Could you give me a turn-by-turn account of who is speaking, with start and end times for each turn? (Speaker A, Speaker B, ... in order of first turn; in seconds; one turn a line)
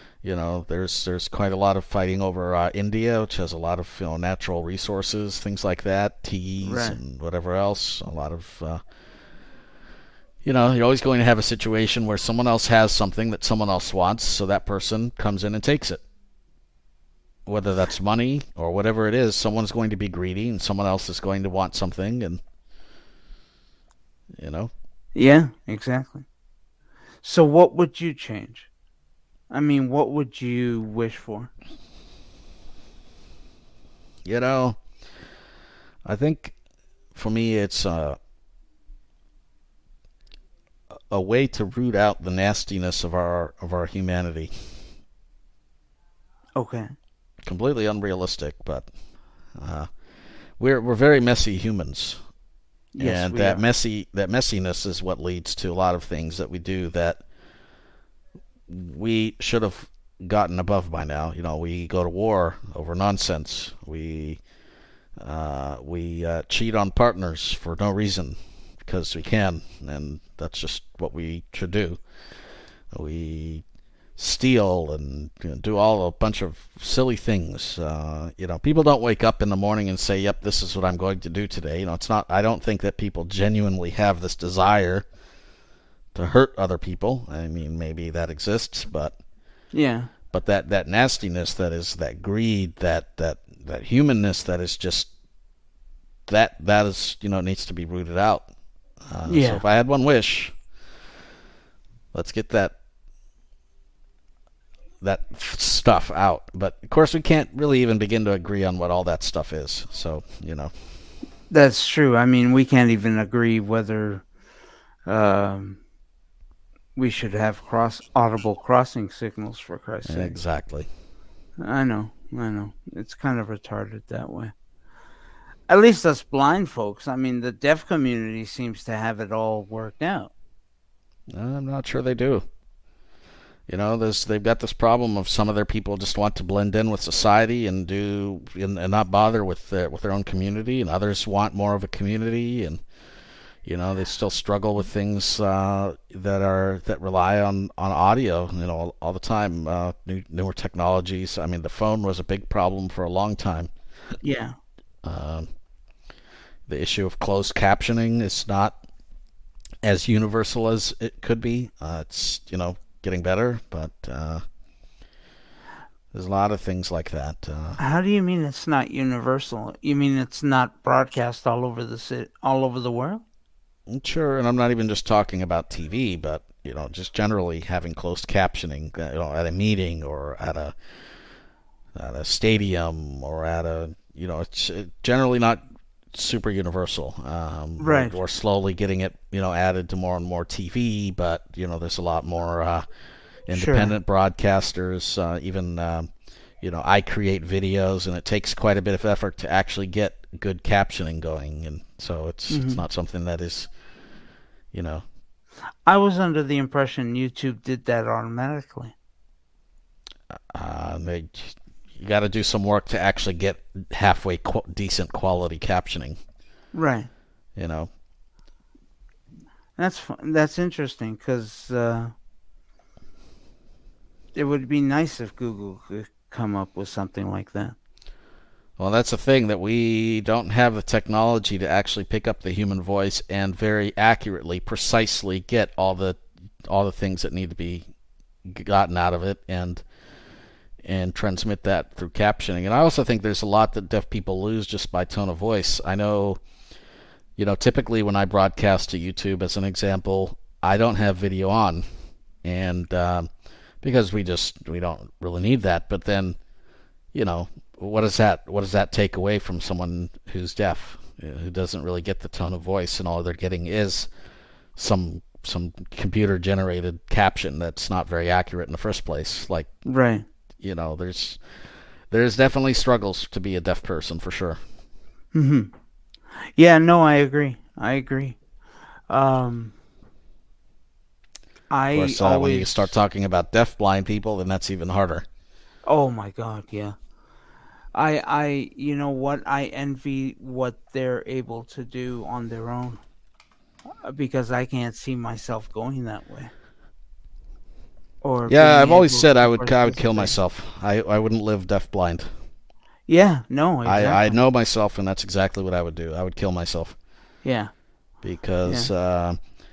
Speaker A: 0.2-8.8
Speaker B: 6.6-7.0
Speaker A: 10.4-16.0
Speaker A: 17.5-22.4
Speaker A: 24.4-24.7
Speaker B: 25.1-26.2
Speaker B: 27.2-28.7
Speaker B: 29.5-31.5
Speaker A: 34.2-34.8
Speaker A: 36.0-36.6
Speaker A: 37.1-38.2
Speaker A: 41.1-44.7
Speaker B: 46.6-46.9
Speaker A: 47.4-48.9
Speaker A: 49.5-49.9
Speaker A: 50.6-52.2
Speaker B: 53.0-53.6
Speaker A: 53.0-57.2
Speaker A: 58.7-64.4
Speaker A: 65.2-72.0
Speaker A: 72.9-73.6
Speaker A: 74.2-85.1
Speaker A: 86.1-89.2
Speaker B: 89.7-90.1
Speaker A: 90.3-95.1
Speaker A: 96.3-98.5
Speaker A: 99.1-100.6
Speaker B: 99.3-99.6
Speaker A: 102.1-102.8
Speaker A: 105.0-110.7
Speaker B: 111.5-114.2
Speaker B: 115.1-115.8
Speaker B: 117.0-120.4
Speaker A: 120.0-120.9
Speaker B: 121.6-124.5
Speaker B: 125.7-130.3
Speaker A: 131.3-132.4
Speaker A: 133.7-142.8
Speaker A: 143.7-153.7
Speaker B: 154.2-154.6
Speaker A: 155.0-155.5
Speaker A: 156.7-158.8
Speaker A: 159.8-164.4
Speaker A: 166.1-167.8
Speaker B: 167.8-173.2
Speaker A: 173.9-180.8
Speaker A: 181.9-192.9
Speaker B: 187.8-188.2
Speaker A: 193.5-203.7
Speaker B: 193.5-193.9
Speaker B: 202.5-202.8
Speaker A: 204.7-205.0
Speaker B: 205.8-208.9
Speaker A: 210.3-216.2
Speaker B: 216.7-217.1
Speaker A: 217.6-217.9
Speaker B: 219.8-222.1
Speaker B: 224.3-227.8
Speaker A: 228.8-237.9
Speaker A: 238.5-239.8
Speaker A: 240.8-246.4
Speaker A: 247.4-251.8
Speaker A: 252.4-253.3
Speaker A: 253.8-256.4
Speaker A: 257.1-264.1
Speaker A: 264.8-269.7
Speaker B: 269.9-270.2
Speaker A: 270.6-271.6
Speaker A: 272.1-274.6
Speaker B: 275.3-275.7
Speaker B: 276.6-278.4
Speaker B: 279.1-279.8
Speaker B: 281.7-282.9
Speaker A: 281.9-285.2
Speaker B: 285.9-287.0
Speaker B: 287.9-293.0
Speaker B: 294.0-296.5
Speaker B: 298.2-300.3
Speaker A: 298.4-302.3
Speaker B: 303.1-304.4
Speaker A: 303.9-306.9
Speaker B: 307.4-307.7
Speaker A: 308.2-309.4